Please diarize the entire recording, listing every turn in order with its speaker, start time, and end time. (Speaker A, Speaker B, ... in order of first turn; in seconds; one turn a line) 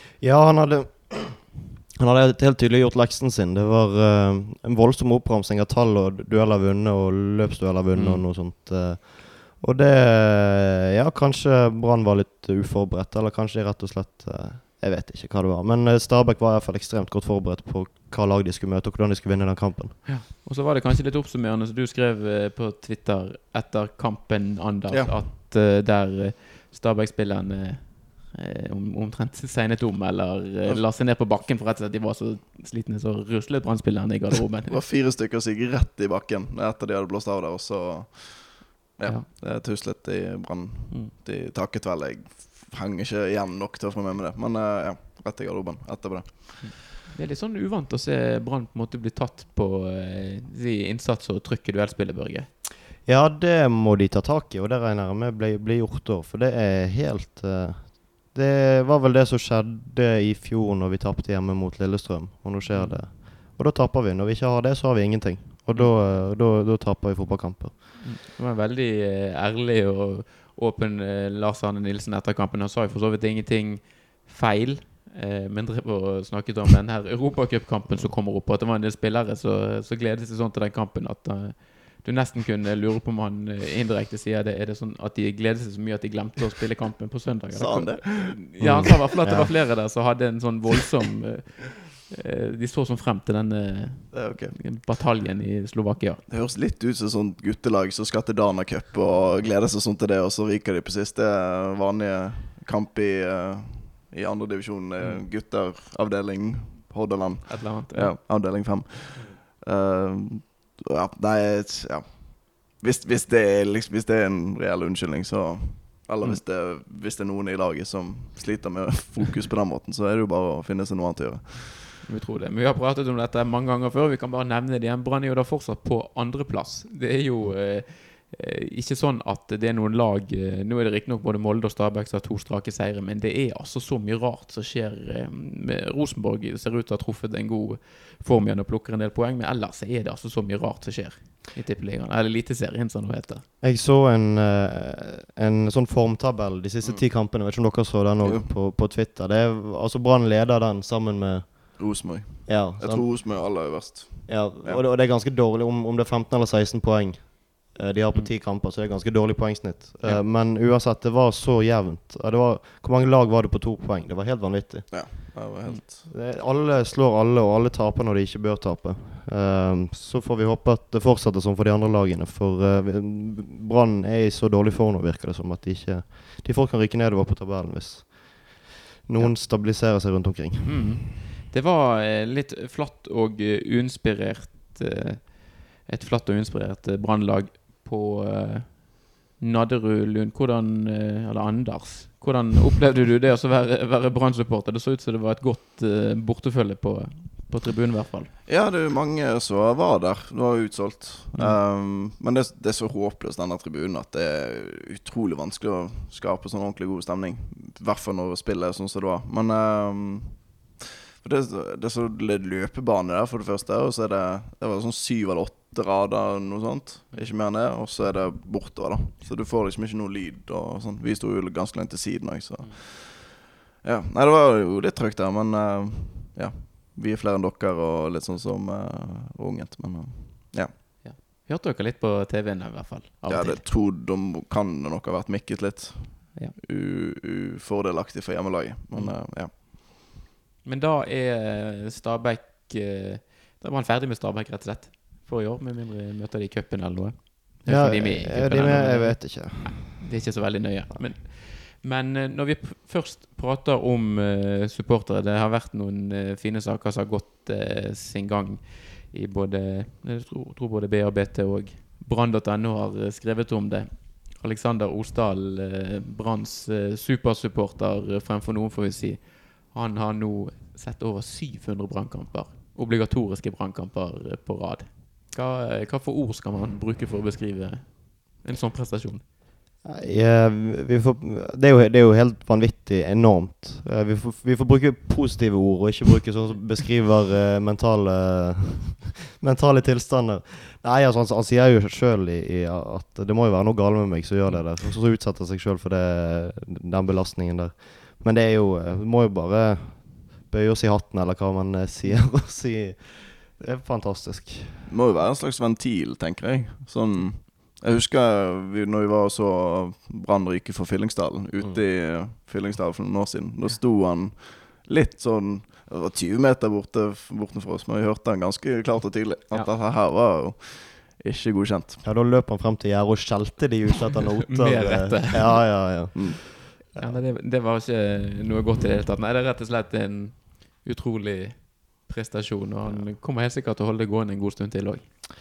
Speaker A: 0.2-20.2
Speaker B: 7.9-8.2
Speaker B: 20.1-34.8
Speaker C: 24.9-25.2
Speaker C: 34.7-46.8
Speaker B: 39.0-39.3
Speaker B: 46.6-52.5
Speaker A: 53.0-67.8
Speaker B: 62.7-63.0
Speaker B: 68.0-96.2
Speaker A: 77.9-78.1
Speaker C: 87.5-89.0
Speaker A: 88.6-89.5
Speaker C: 94.1-94.7
Speaker C: 96.3-121.9
Speaker B: 105.0-105.2
Speaker B: 107.5-108.2
Speaker B: 122.0-143.4
Speaker A: 143.6-165.4
Speaker C: 146.8-147.1
Speaker C: 148.2-148.5
Speaker C: 151.8-154.8
Speaker C: 164.9-166.0
Speaker A: 166.1-181.0
Speaker B: 180.7-198.3
Speaker C: 198.5-230.9
Speaker B: 201.3-201.6
Speaker B: 231.0-233.6
Speaker C: 233.3-239.5
Speaker B: 238.9-239.2
Speaker B: 240.6-279.2
Speaker A: 247.7-250.4
Speaker A: 279.8-304.9
Speaker C: 304.9-322.0
Speaker A: 322.0-327.2
Speaker B: 324.5-325.8
Speaker B: 326.9-335.1
Speaker A: 332.9-333.1